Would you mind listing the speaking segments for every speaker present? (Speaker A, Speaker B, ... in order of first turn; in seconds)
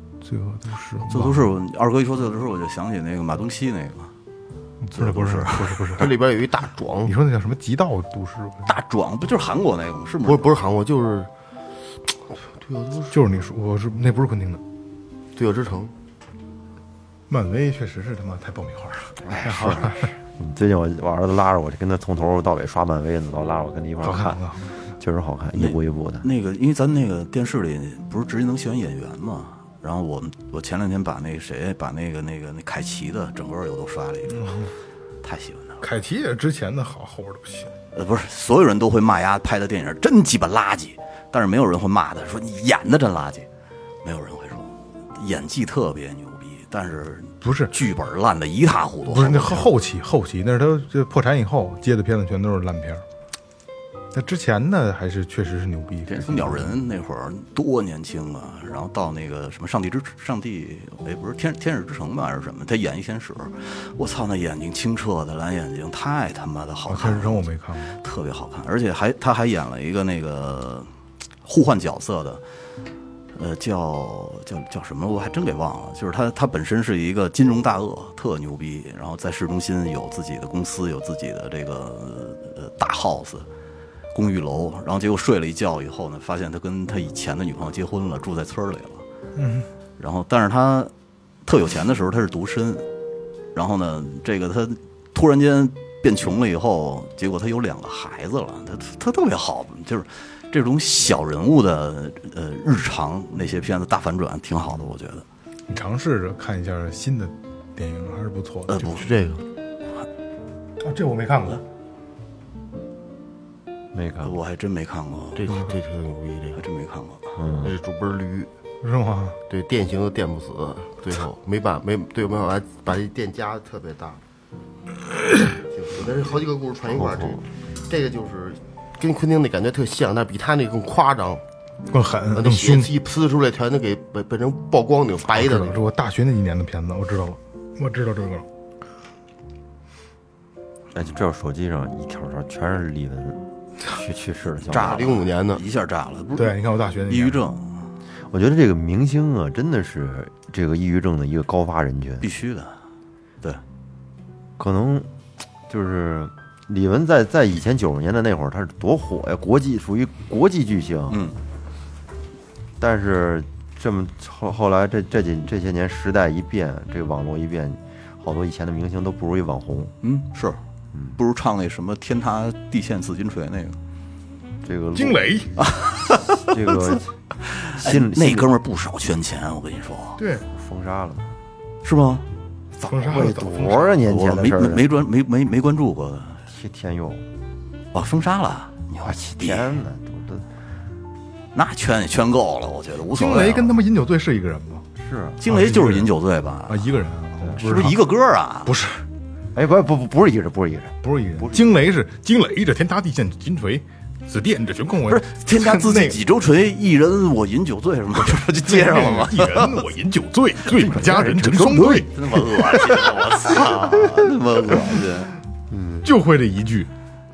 Speaker A: 0.2-1.5, 4.8-6.2, 7.0-8.7, 13.1-14.6, 17.3-20.1, 24.0-24.8, 34.3-34.7, 35.8-37.7, 47.4-47.8, 49.1-53.0, 54.1-56.8, 66.9-67.9, 89.4-89.7, 105.7-109.1, 110.8-111.6, 118.8-119.4, 131.9-132.9, 135.3-138.4, 146.4-147.4, 174.9-175.5, 180.2-180.4, 182.8-184.0, 193.1-194.9, 195.4-196.1, 196.7-198.0, 198.7-199.0, 201.0-206.2, 208.3-212.1, 216.0-216.9
Speaker B: 1.0-4.1, 4.9-5.9, 8.7-10.5, 25.6-34.6, 35.2-35.8, 37.9-43.5, 44.0-49.7, 56.1-67.4, 68.0-70.9, 71.4-72.4, 73.3-83.5, 84.1-89.0, 90.0-90.9, 91.4-92.9, 93.5-105.2, 108.7-109.1, 114.2-115.6, 116.5-117.2, 144.7-147.8, 152.2-152.7, 161.1-161.4, 170.0-170.6, 171.2-173.8, 175.6-176.9, 177.5-180.2, 181.8-182.2, 184.0-186.4, 187.9-189.7, 191.5-193.7, 195.4-196.8, 197.6-198.7, 205.1-209.8, 211.8-215.3
Speaker C: 6.0-7.1, 10.2-11.3, 12.5-13.2, 15.4-15.9, 108.8-109.4, 115.4-116.6, 117.6-118.5, 119.5-124.2, 125.5-131.4, 132.3-135.8, 144.8-145.6
Speaker D: 19.2-24.4, 25.0-26.2, 113.9-114.3, 117.4-117.7, 126.9-127.4, 140.9-145.2, 148.3-152.3, 154.6-155.1, 155.7-161.2, 162.8-169.9, 174.6-175.5, 176.3-177.1, 177.7-178.5, 180.5-181.3, 182.8-184.8, 186.5-187.2, 189.0-190.4, 194.9-195.4, 199.5-201.7, 210.7-212.1, 215.7-216.1